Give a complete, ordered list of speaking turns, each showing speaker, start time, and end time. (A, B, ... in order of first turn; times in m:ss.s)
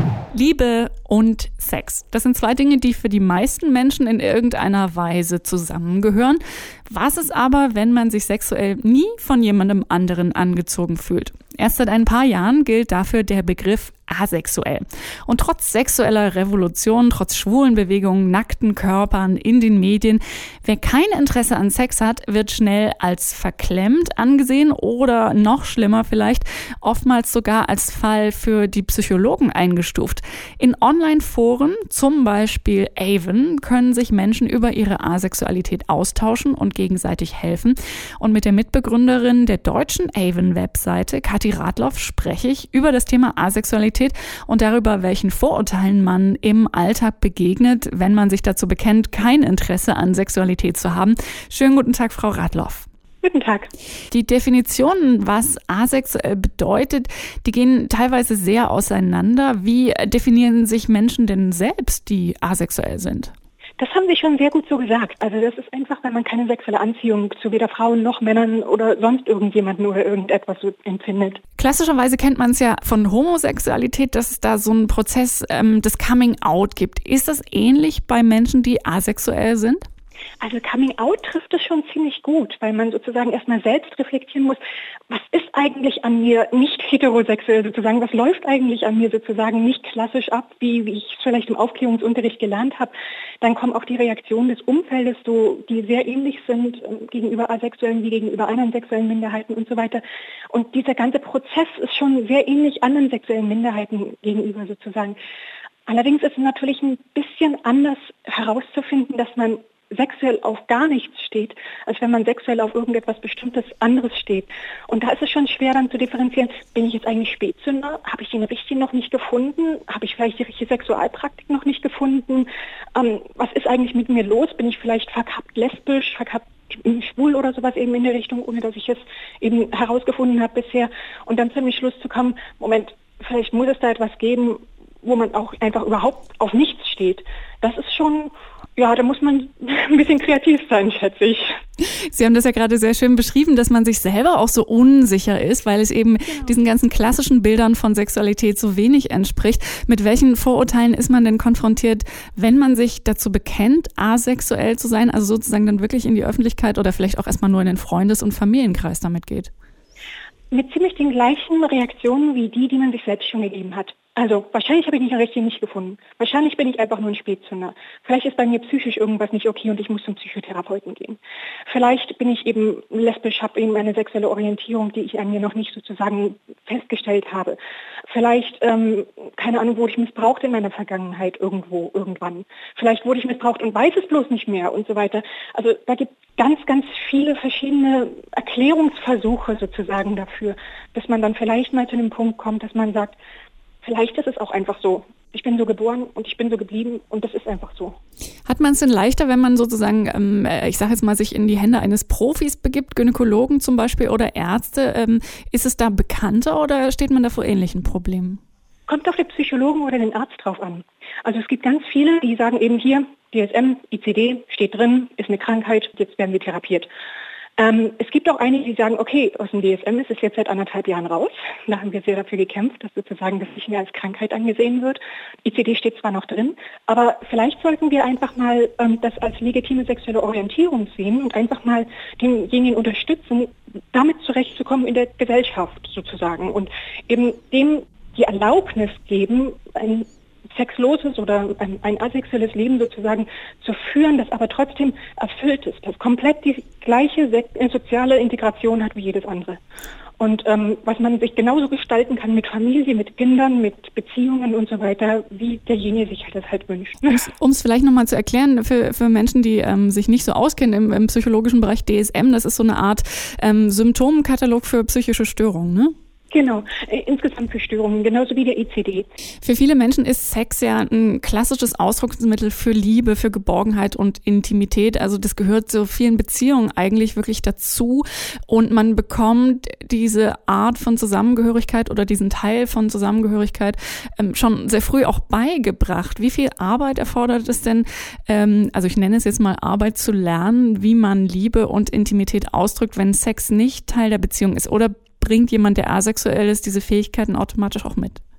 0:00.3-0:52.9 A
0:53.2-0:53.7 B
0:54.1-1:03.3 A
1:03.8-1:11.4 B
1:11.6-1:19.8 A
1:20.4-1:24.6 B
1:25.1-1:45.2 B
1:45.9-2:21.5 B
2:22.0-2:39.5 A
2:40.5-3:13.2 B
3:13.8-3:18.0 B
3:18.4-3:28.4 A
3:28.9-3:36.9 B
3:37.6-4:09.6 B
4:10.2-4:17.2 B
4:17.0-4:25.9 A
4:26.3-4:29.1 B
4:29.4-4:58.2 A